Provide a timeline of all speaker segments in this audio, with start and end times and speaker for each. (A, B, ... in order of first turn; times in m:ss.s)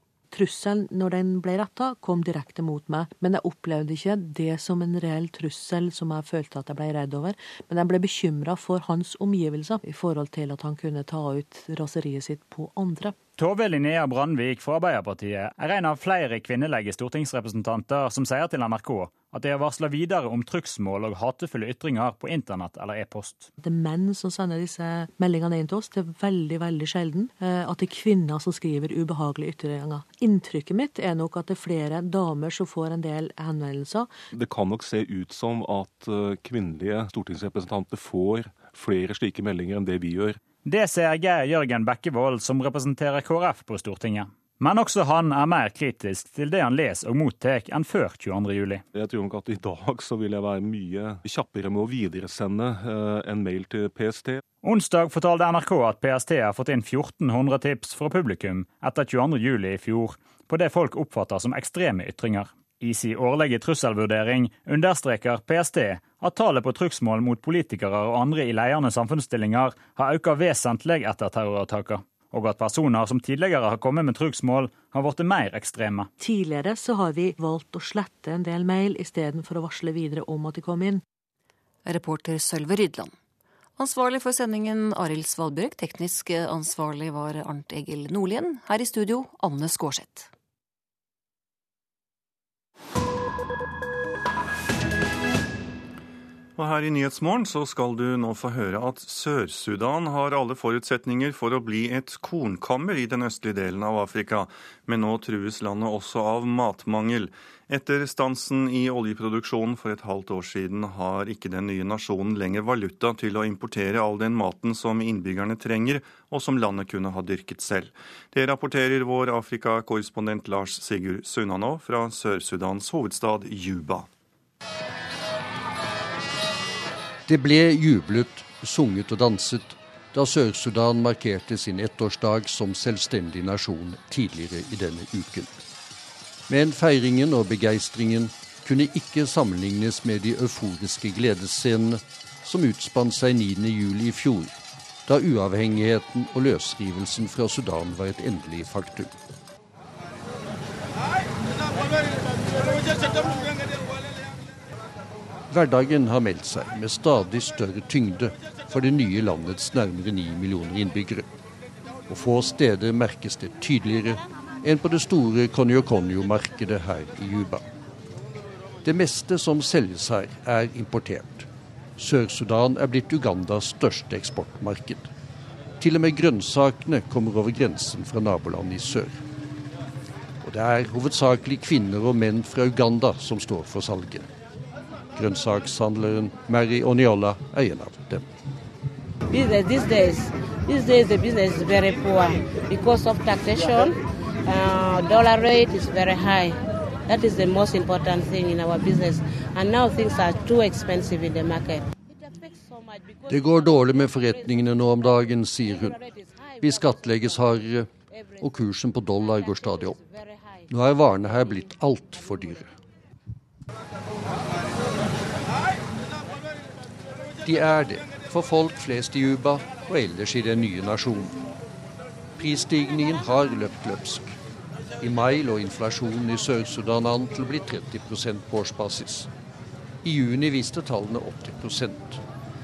0:00.3-0:13.2 A
0:13.4-0:23.5 B
0:23.6-0:34.1 A
0:34.3-0:40.4 C
0:40.6-0:48.8 B
0:48.9-0:54.4 C
0:54.6-1:16.1 B
1:16.2-1:21.0 A
1:21.9-1:23.1 D
1:23.8-1:30.3 D
1:36.6-2:04.1 E
2:07.3-2:15.6 F
2:16.5-2:24.6 F
2:25.1-2:29.1 F
2:35.5-2:41.3 F
2:42.1-2:47.7 F
2:48.8-2:55.1 F
2:55.8-2:59.2 F
3:00.4-3:04.3 F
3:05.2-3:08.2 F
3:09.3-3:13.9 G
3:14.9-3:16.6 G
3:17.1-3:21.8 G
3:23.3-3:26.0 F
3:26.6-3:30.0 F
3:30.7-3:32.7 F
3:37.4-3:41.4 F
3:42.4-3:44.4 F
3:45.0-3:49.3 F
3:50.0-3:52.2 F